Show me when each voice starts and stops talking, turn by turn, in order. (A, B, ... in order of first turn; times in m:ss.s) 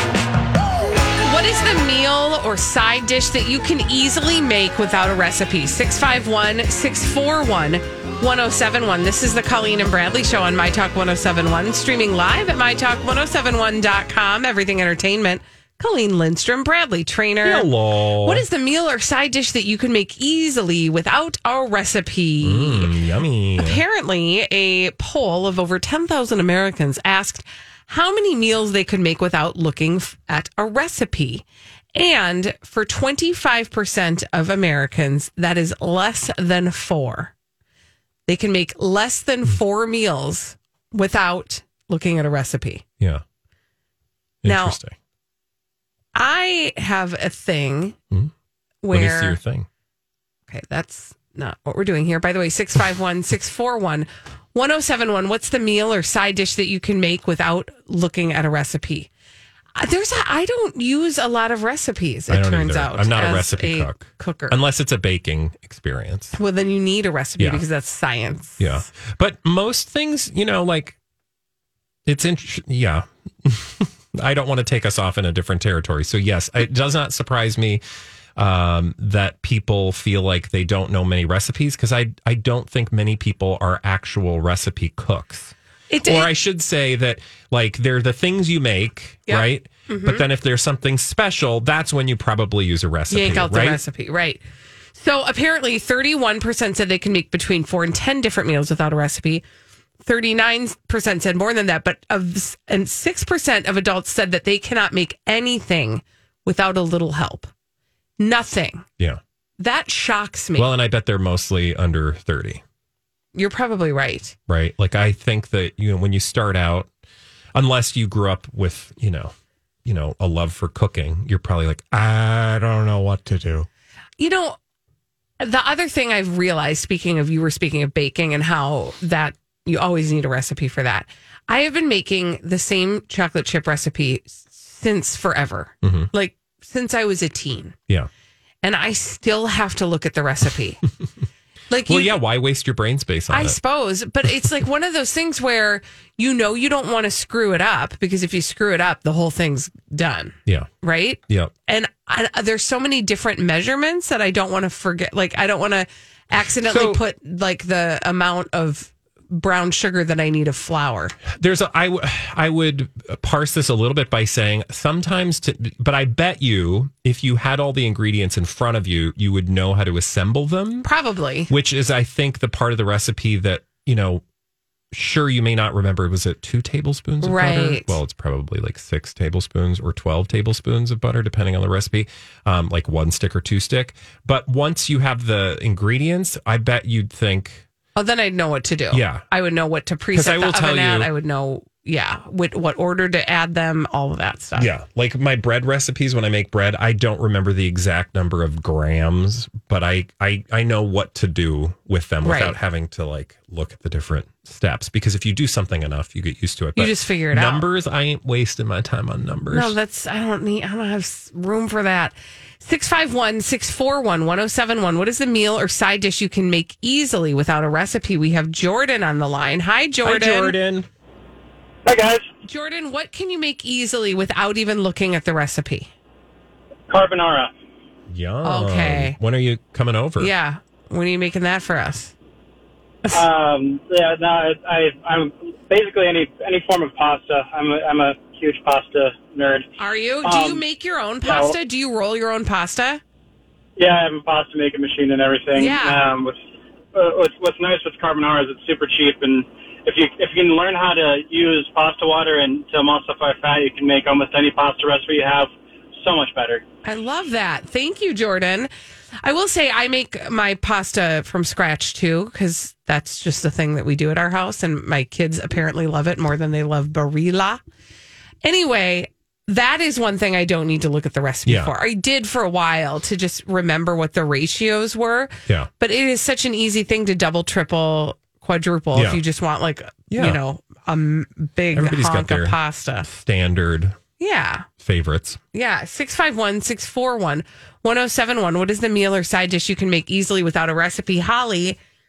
0:01.2-0:23.0 A
0:17.4-0:18.5 B
0:22.4-0:23.8 B
0:23.6-0:31.4 A
0:32.0-0:37.3 A
0:38.3-0:42.8 A
0:44.4-0:45.0 B
0:44.4-0:44.8 A
0:46.2-0:48.0 A
0:48.8-0:49.4 A
0:48.9-0:49.7 B
0:50.5-0:59.1 A
0:59.8-1:04.6 A
1:02.3-1:06.4 B
1:06.3-1:08.8 A
1:07.4-1:07.6 B
1:08.6-1:11.0 B
1:12.1-1:17.8 B
1:18.4-1:33.8 B
1:25.9-1:26.3 A
1:29.3-1:30.2 A
1:33.1-1:34.4 A
1:34.9-1:39.4 A
1:40.0-1:47.5 A
1:48.2-1:48.8 A
1:49.6-1:50.7 A
1:50.6-1:52.6 B
1:53.3-1:54.3 A
1:54.5-1:56.9 B
1:57.5-1:59.3 B
1:59.8-2:03.7 B
2:04.2-2:04.6 A
2:05.4-2:17.8 A
2:15.8-2:16.1 B
2:18.6-2:20.8 A
2:21.7-2:22.2 A
2:21.8-2:23.6 B
2:23.3-2:41.2 A
2:36.6-2:37.0 B
2:41.3-2:50.9 B
2:50.8-2:51.5 A
2:51.5-2:54.2 B
2:54.9-3:07.6 B
2:57.2-2:58.0 A
3:08.0-3:14.7 A
3:08.9-3:09.2 B
3:10.1-3:11.1 B
3:14.5-3:29.8 B
3:22.2-3:22.6 A
3:26.8-3:27.7 A
3:29.5-3:40.6 A
3:40.0-3:40.9 B
3:41.9-3:42.3 C
3:42.4-3:45.9 A
3:46.9-3:47.5 C
3:48.1-3:50.3 B
3:48.4-3:49.2 A
3:50.2-3:52.1 A
3:53.1-3:59.7 C
3:59.8-4:03.0 A
4:00.2-4:00.6 C
4:01.2-4:01.5 C
4:03.8-4:06.3 C
4:05.5-4:06.1 A
4:06.9-4:15.5 C
4:16.0-4:16.6 C
4:16.8-4:18.7 A
4:19.2-4:27.6 A
4:28.4-4:43.1 A
4:31.4-4:31.7 B
4:38.9-4:39.2 B
4:40.1-4:40.4 B
4:41.7-4:44.0 B
4:44.2-4:44.6 A
4:44.8-4:45.4 B
4:45.5-4:51.8 A